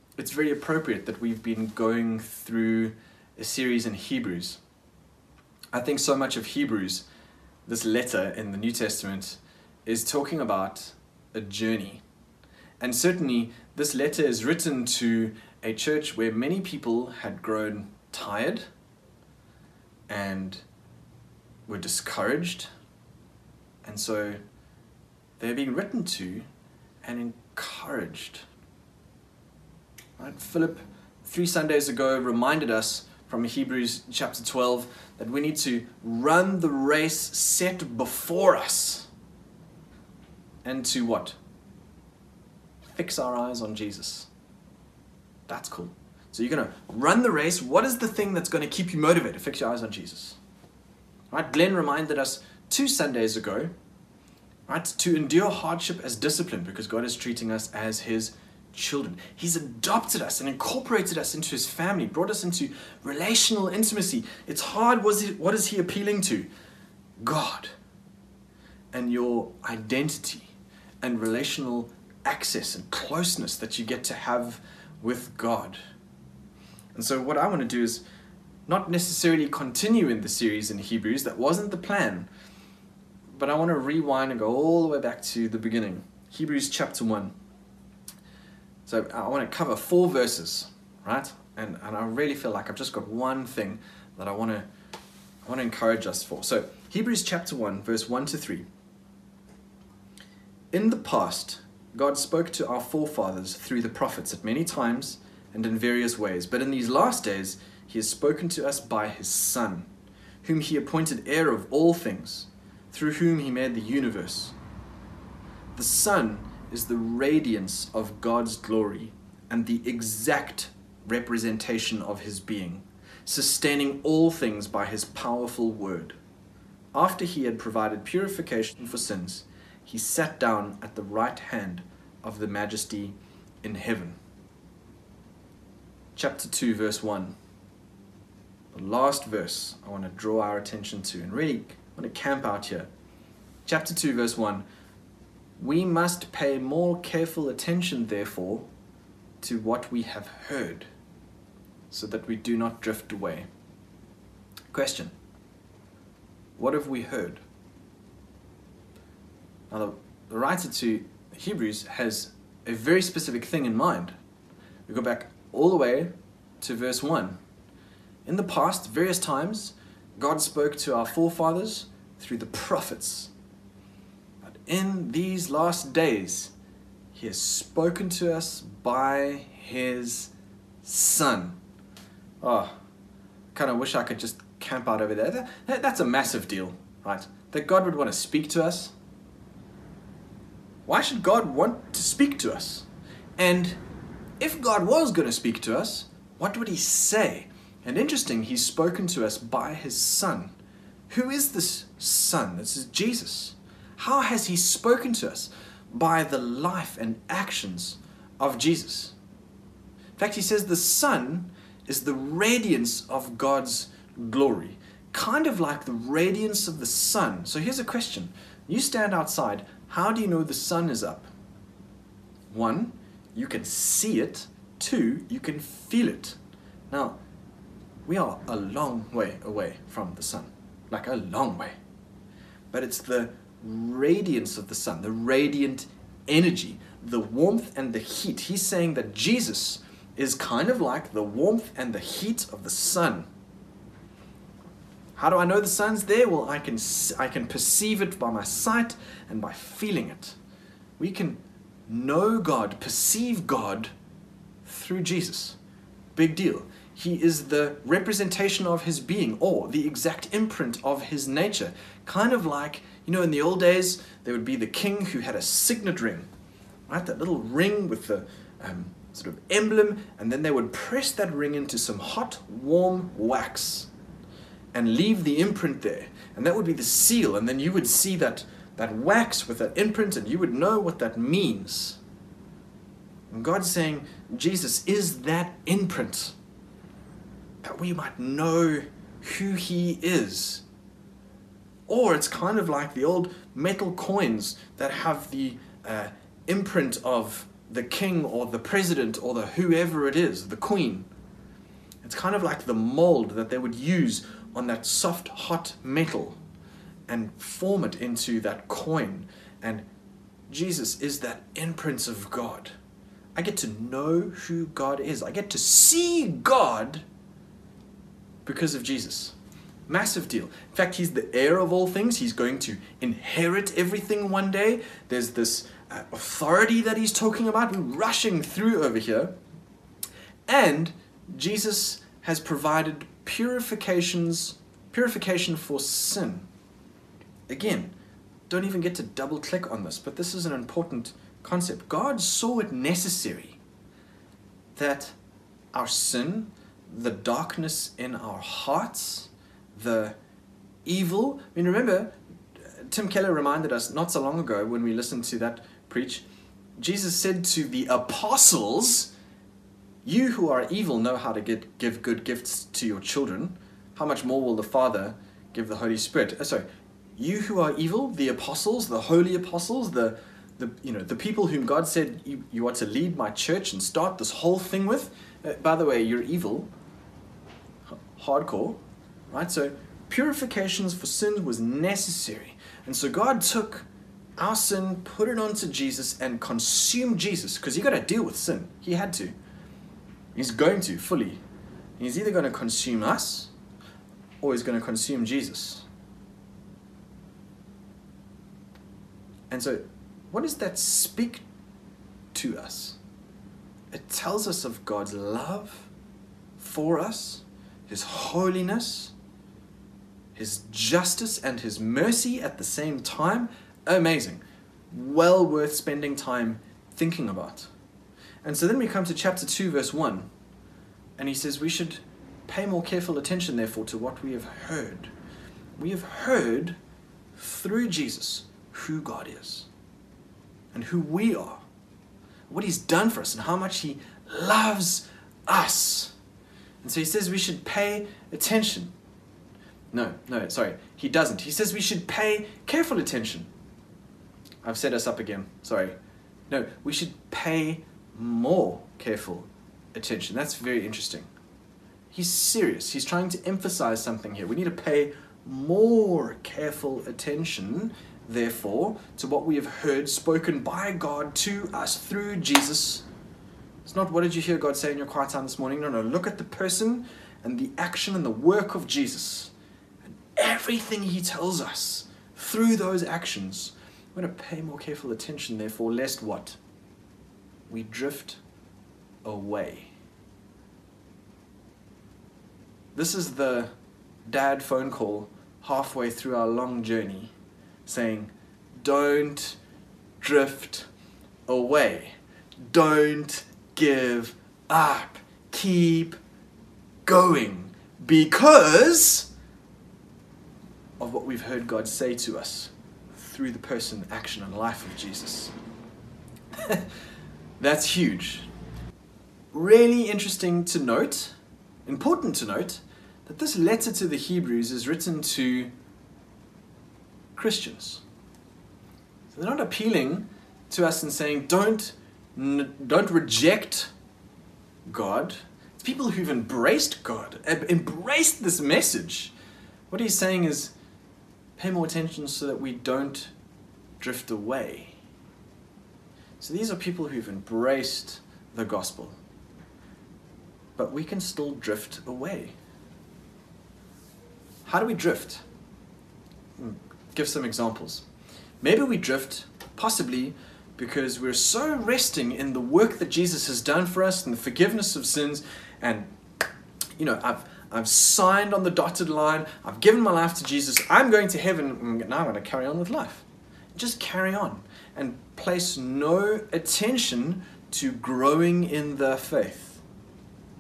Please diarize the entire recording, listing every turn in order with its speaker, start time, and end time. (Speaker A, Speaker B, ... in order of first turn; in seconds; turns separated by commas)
Speaker A: 0.2-4.6, Speaker A: 5.7-7.0, Speaker A: 7.7-12.0, Speaker A: 12.8-18.7, Speaker A: 20.1-20.6, Speaker A: 21.7-22.7, Speaker A: 23.8-24.4, Speaker A: 25.4-26.4, Speaker A: 27.0-28.4, Speaker A: 30.2-39.1, Speaker A: 40.6-41.4, Speaker A: 42.9-44.3, Speaker A: 45.5-50.4, Speaker A: 51.3-53.7, Speaker A: 54.7-66.5, Speaker A: 67.2-67.7, Speaker A: 68.9-75.8, Speaker A: 76.9-78.0, Speaker A: 78.7-82.3, Speaker A: 83.3-87.3, Speaker A: 88.8-94.7, Speaker A: 95.4-98.7, Speaker A: 100.7-109.9, Speaker A: 110.4-114.5, Speaker A: 115.7-126.2, Speaker A: 126.9-134.2, Speaker A: 136.1-137.3, Speaker A: 138.7-142.9, Speaker A: 143.7-144.6, Speaker A: 145.6-148.7, Speaker A: 149.4-150.9, Speaker A: 151.9-153.5, Speaker A: 154.7-155.1, Speaker A: 156.6-157.4, Speaker A: 159.7-164.2, Speaker A: 164.9-167.4, Speaker A: 168.2-173.3, Speaker A: 174.4-176.5, Speaker A: 177.1-180.3, Speaker A: 180.8-181.6, Speaker A: 182.4-182.8, Speaker A: 183.5-188.9, Speaker A: 190.8-193.8, Speaker A: 194.4-200.5, Speaker A: 201.1-209.1, Speaker A: 210.2-221.3, Speaker A: 222.5-226.4, Speaker A: 226.9-227.2, Speaker A: 228.1-231.8, Speaker A: 232.7-243.3, Speaker A: 245.2-250.4, Speaker A: 251.0-253.9, Speaker A: 254.6-255.6, Speaker A: 256.1-266.3, Speaker A: 266.9-273.9, Speaker A: 274.7-282.0, Speaker A: 283.3-286.4, Speaker A: 287.6-290.6, Speaker A: 291.9-301.1, Speaker A: 302.0-306.4, Speaker A: 307.1-309.9, Speaker A: 310.5-312.7, Speaker A: 313.3-317.0, Speaker A: 318.4-319.3, Speaker A: 319.9-329.3, Speaker A: 330.5-336.5, Speaker A: 337.5-337.9, Speaker A: 338.5-343.6, Speaker A: 344.8-345.1, Speaker A: 345.7-350.1, Speaker A: 350.8-352.1, Speaker A: 352.8-356.2, Speaker A: 356.8-359.1, Speaker A: 360.0-366.6, Speaker A: 367.1-376.7, Speaker A: 377.9-389.3, Speaker A: 390.3-391.4, Speaker A: 392.0-393.5, Speaker A: 394.4-395.9, Speaker A: 399.5-401.4, Speaker A: 402.3-403.0, Speaker A: 403.9-405.9, Speaker A: 406.6-409.1, Speaker A: 410.3-417.7, Speaker A: 418.4-420.3, Speaker A: 421.2-425.1, Speaker A: 425.8-426.8, Speaker A: 427.3-429.7, Speaker A: 430.7-431.6, Speaker A: 432.5-436.1, Speaker A: 436.8-438.9, Speaker A: 439.9-443.5, Speaker A: 444.6-445.9, Speaker A: 446.5-451.3, Speaker A: 452.1-463.0, Speaker A: 463.8-469.5, Speaker A: 470.0-476.6, Speaker A: 477.7-478.4, Speaker A: 479.2-479.9, Speaker A: 482.9-483.7, Speaker A: 484.2-487.3, Speaker A: 487.9-489.6, Speaker A: 490.2-490.9, Speaker A: 491.5-496.2, Speaker A: 497.1-499.3, Speaker A: 501.0-505.5, Speaker A: 506.5-506.9, Speaker A: 507.6-508.5, Speaker A: 509.5-511.3, Speaker A: 511.9-515.7, Speaker A: 517.3-518.0, Speaker A: 519.3-523.9, Speaker A: 524.9-529.3, Speaker A: 529.9-530.7, Speaker A: 531.6-533.3, Speaker A: 534.0-535.0, Speaker A: 536.4-539.2, Speaker A: 540.8-542.5, Speaker A: 544.6-545.4, Speaker A: 546.6-548.0, Speaker A: 548.6-556.1, Speaker A: 557.0-569.8